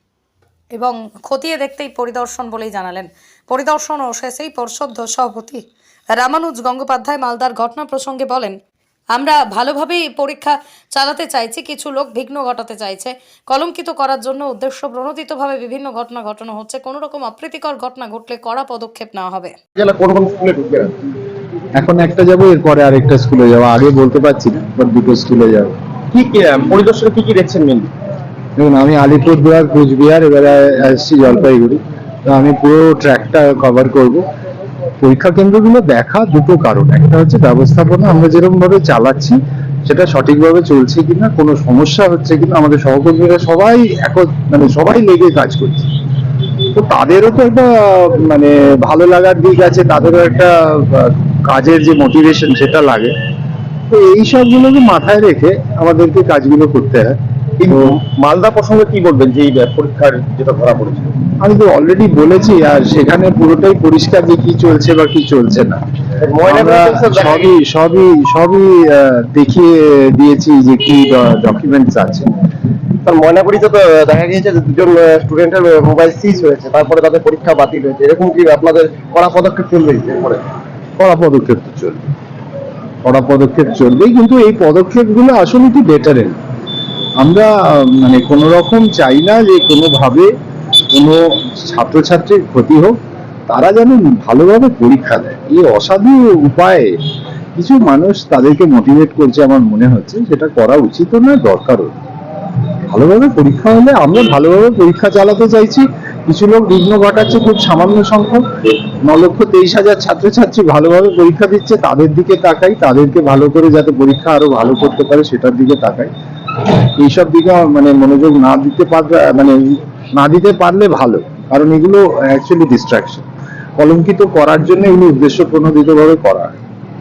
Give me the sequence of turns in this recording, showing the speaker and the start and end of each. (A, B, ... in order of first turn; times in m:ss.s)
0:00.7-0:05.6 A
0:06.1-0:08.6 A
0:09.1-0:19.5 A
0:19.8-0:20.9 B
0:21.8-0:25.7 C
0:26.1-0:27.9 B
0:28.6-0:34.2 C
0:35.0-0:45.9 C
0:46.7-0:53.1 C
0:53.9-0:57.1 C
0:57.6-1:01.1 B
0:57.7-0:57.9 C
1:01.4-1:05.8 C
1:06.2-1:07.5 B
1:06.4-1:12.3 C
1:13.0-1:20.4 B
1:21.0-1:22.0 C
1:23.0-1:26.4 C
1:27.2-1:30.3 C
1:30.9-1:33.0 C
1:33.5-1:36.9 C
1:37.6-1:41.9 C
1:42.9-1:48.4 C
1:49.0-1:56.1 C
1:56.6-2:03.3 C
2:03.8-2:06.6 C